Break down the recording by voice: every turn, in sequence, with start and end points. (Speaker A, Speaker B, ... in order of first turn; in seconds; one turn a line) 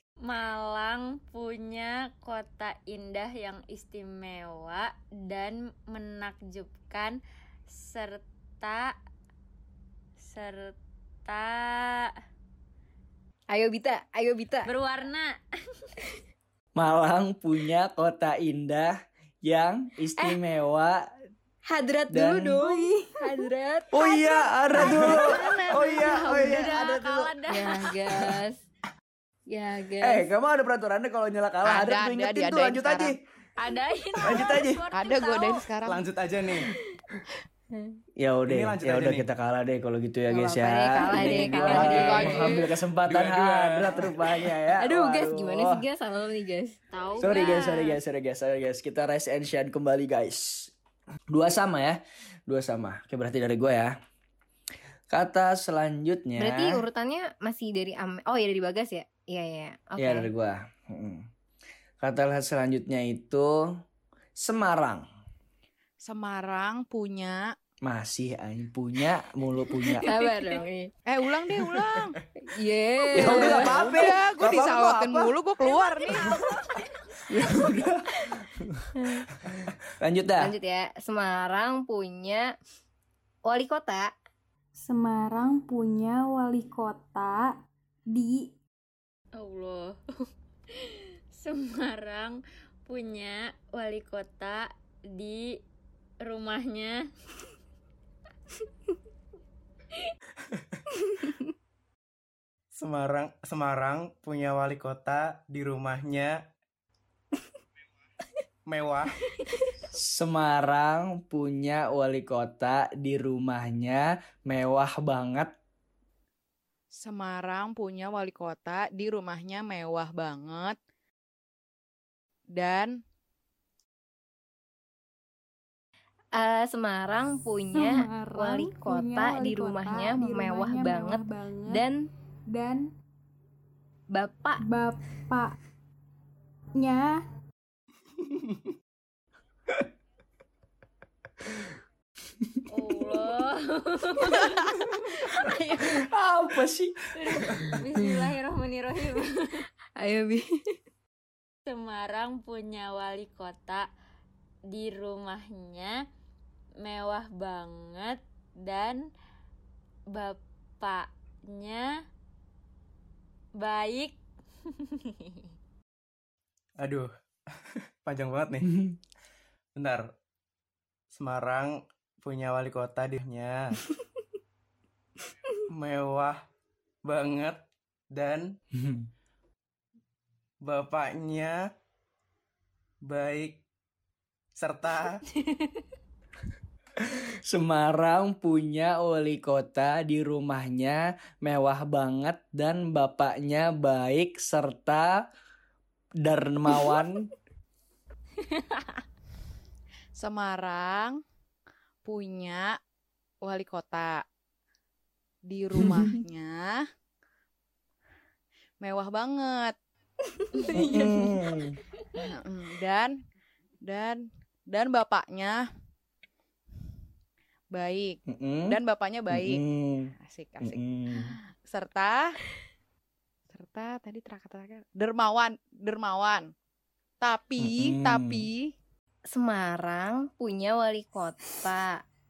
Speaker A: 0.2-8.9
Speaker A: 10.2-12.1
Speaker B: 13.5-14.7
Speaker A: 14.7-15.3
Speaker C: 16.8-21.1
Speaker B: 21.7-26.5
Speaker C: 22.1-22.6
Speaker C: 23.9-27.3
Speaker A: 24.7-27.9
Speaker B: 27.5-28.6
Speaker B: 29.5-30.3
Speaker C: 30.0-33.2
Speaker D: 31.6-33.1
Speaker A: 33.6-35.6
Speaker C: 34.2-34.8
Speaker D: 34.9-36.1
Speaker E: 35.9-36.7
Speaker C: 38.2-45.8
Speaker E: 38.5-39.3
Speaker B: 40.3-42.6
Speaker D: 41.2-42.6
Speaker E: 43.0-44.3
Speaker B: 44.8-46.8
Speaker A: 46.9-48.0
Speaker C: 47.2-50.7
Speaker C: 51.3-54.0
Speaker C: 55.1-56.8
Speaker B: 56.4-60.3
Speaker C: 60.0-61.3
Speaker C: 62.0-63.8
Speaker C: 64.3-65.0
Speaker D: 66.0-67.5
Speaker C: 67.8-70.1
Speaker B: 70.0-70.9
Speaker D: 71.0-72.2
Speaker B: 72.4-73.8
Speaker C: 73.1-75.3
Speaker D: 73.2-76.3
Speaker A: 75.7-76.9
Speaker B: 77.3-77.7
Speaker C: 77.3-78.9
Speaker B: 79.0-79.3
Speaker C: 80.0-80.5
Speaker B: 80.4-82.5
Speaker B: 83.4-84.1
Speaker F: 84.8-88.5
Speaker A: 89.3-90.0
Speaker A: 90.7-95.6
Speaker A: 96.2-97.1
Speaker E: 102.7-106.4
Speaker E: 108.7-109.2
Speaker C: 109.9-115.5
Speaker D: 116.9-120.8
Speaker D: 122.5-123.0
Speaker B: 126.3-132.1
Speaker F: 127.7-131.8
Speaker F: 132.5-132.9
Speaker B: 134.1-134.6
Speaker F: 134.6-135.5
Speaker F: 136.8-137.2
Speaker E: 138.2-138.6
Speaker A: 142.7-145.5
Speaker C: 145.8-147.0
Speaker A: 147.2-149.6
Speaker C: 147.5-147.7
Speaker B: 150.0-150.4
Speaker A: 151.7-153.9
Speaker A: 154.7-156.0
Speaker A: 156.8-159.1
Speaker A: 160.1-161.9
Speaker A: 163.6-164.2
Speaker A: 164.7-165.4
Speaker E: 166.8-167.1
Speaker E: 167.7-168.7
Speaker C: 168.6-169.0
Speaker E: 169.7-170.1
Speaker E: 171.1-173.8
Speaker E: 175.7-176.4
Speaker E: 177.0-178.6
Speaker C: 178.7-179.1
Speaker E: 180.6-181.7
Speaker E: 183.0-183.6
Speaker E: 184.5-185.2
Speaker A: 185.4-185.7
Speaker C: 187.0-195.2
Speaker C: 196.2-197.3
Speaker A: 198.4-199.0
Speaker D: 200.1-201.2
Speaker D: 202.0-202.8
Speaker D: 203.4-204.2
Speaker D: 205.4-206.8
Speaker C: 205.8-206.1
Speaker D: 208.8-209.8
Speaker B: 210.3-211.4
Speaker C: 210.7-211.8
Speaker D: 212.2-213.2
Speaker D: 213.8-215.6
Speaker D: 217.7-222.4
Speaker C: 218.3-218.8
Speaker C: 219.3-221.4
Speaker D: 223.5-226.5
Speaker D: 227.2-228.7
Speaker C: 227.6-228.5
Speaker B: 229.3-232.0